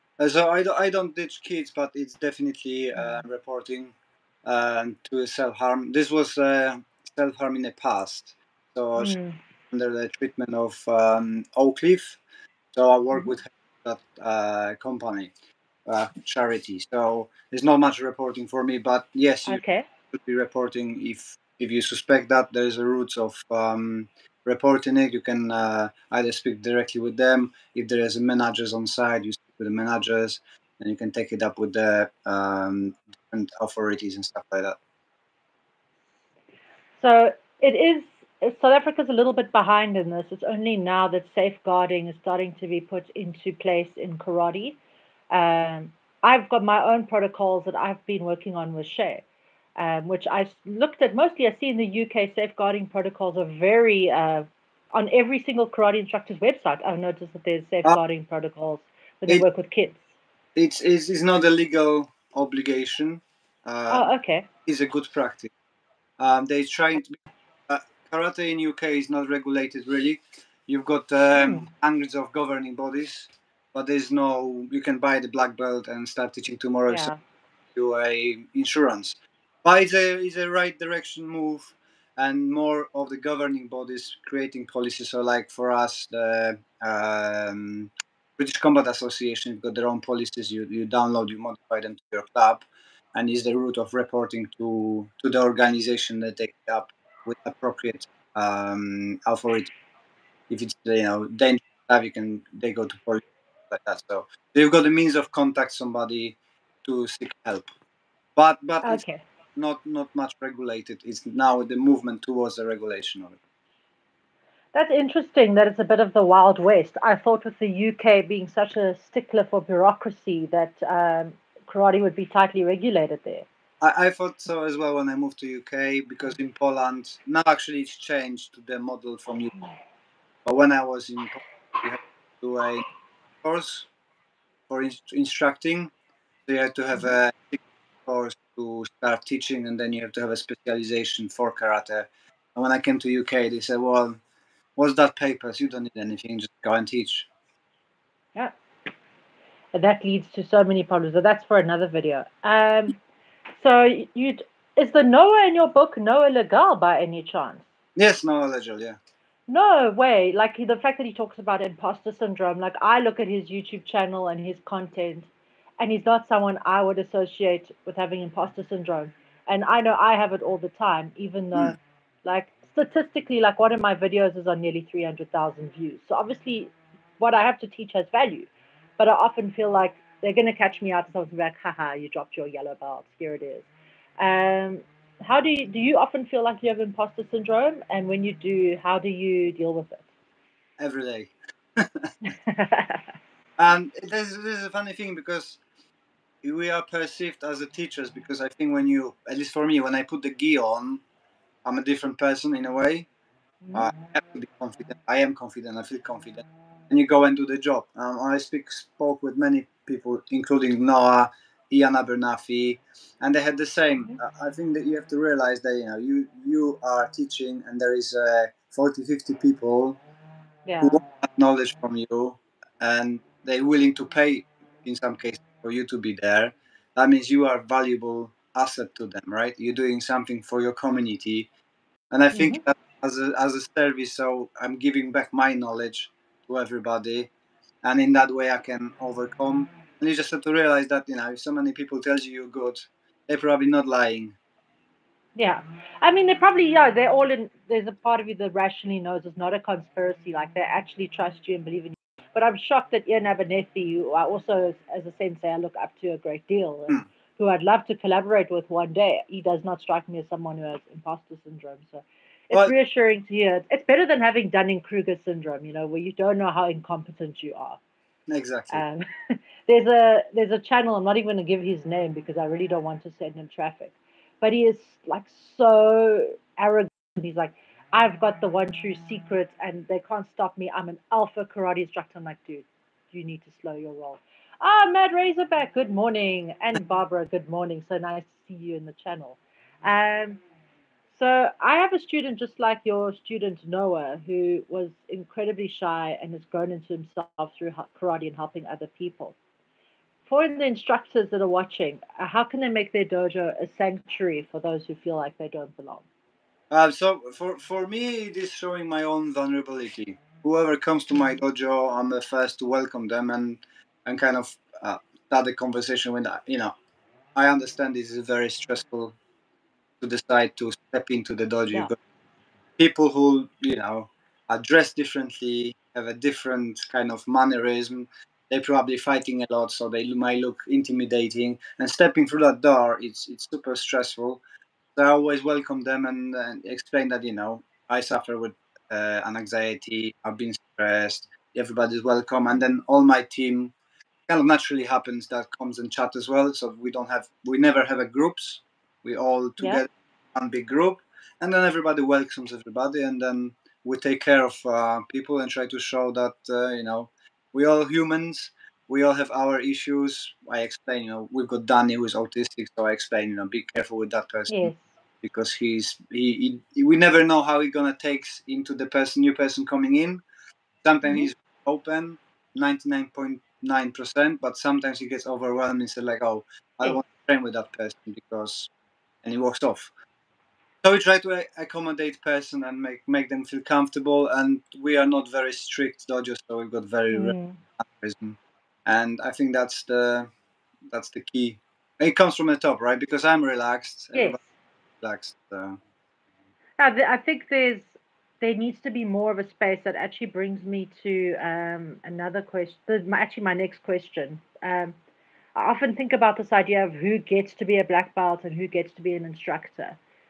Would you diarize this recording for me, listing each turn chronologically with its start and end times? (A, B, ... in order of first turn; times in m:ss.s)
0:00.2-0:09.2 A
0:09.0-0:09.4 B
0:09.7-0:12.2 A
0:12.7-0:15.3 A
0:15.8-0:34.8 A
0:19.5-0:19.8 B
0:37.0-0:44.8 B
0:45.3-0:49.2 B
0:49.8-1:00.0 B
1:00.6-1:04.1 A
1:03.9-1:04.5 B
1:04.6-1:05.5 A
1:06.2-1:17.1 A
1:16.9-1:17.2 B
1:17.7-1:39.7 A
1:40.5-1:47.7 A
1:48.4-1:49.0 A
1:48.8-1:49.2 B
1:49.6-1:53.4 A
1:54.7-2:03.5 B
2:03.8-2:09.5 A
2:10.4-2:12.8 A
2:13.4-2:13.9 A
2:14.7-2:15.9 A
2:16.5-2:24.2 A
2:24.8-2:27.3 A
2:29.7-2:33.0 B
2:33.6-2:37.6 B
2:38.0-2:39.0 A
2:39.5-3:03.7 B
3:04.2-3:10.0 B
3:10.8-3:12.1 A
3:12.2-3:13.0 B
3:13.6-3:15.6 A
3:16.4-3:21.0 A
3:21.6-3:23.1 A
3:23.6-3:23.9 B
3:23.7-3:40.0 A
3:40.6-3:41.0 B
3:40.8-3:51.5 A
3:52.1-3:57.3 A
3:52.3-3:52.6 B
3:57.8-4:04.4 A
4:05.4-4:27.8 B
4:28.3-4:28.8 A
4:28.7-4:50.4 B
4:51.1-4:59.4 B
5:00.3-5:06.0 B
5:06.7-5:16.7 A
5:17.3-5:19.2 A
5:20.0-5:21.9 A
5:22.8-5:34.4 A
5:34.9-5:43.7 A
5:44.3-6:04.7 A
6:04.5-6:04.8 B
6:05.2-6:10.2 A
6:10.8-6:18.7 A
6:19.2-6:19.9 A
6:20.8-6:30.3 A
6:27.1-6:27.6 B
6:30.9-6:34.4 A
6:34.1-6:34.4 B
6:35.0-6:35.8 A
6:36.8-6:45.0 B
6:45.5-6:50.0 B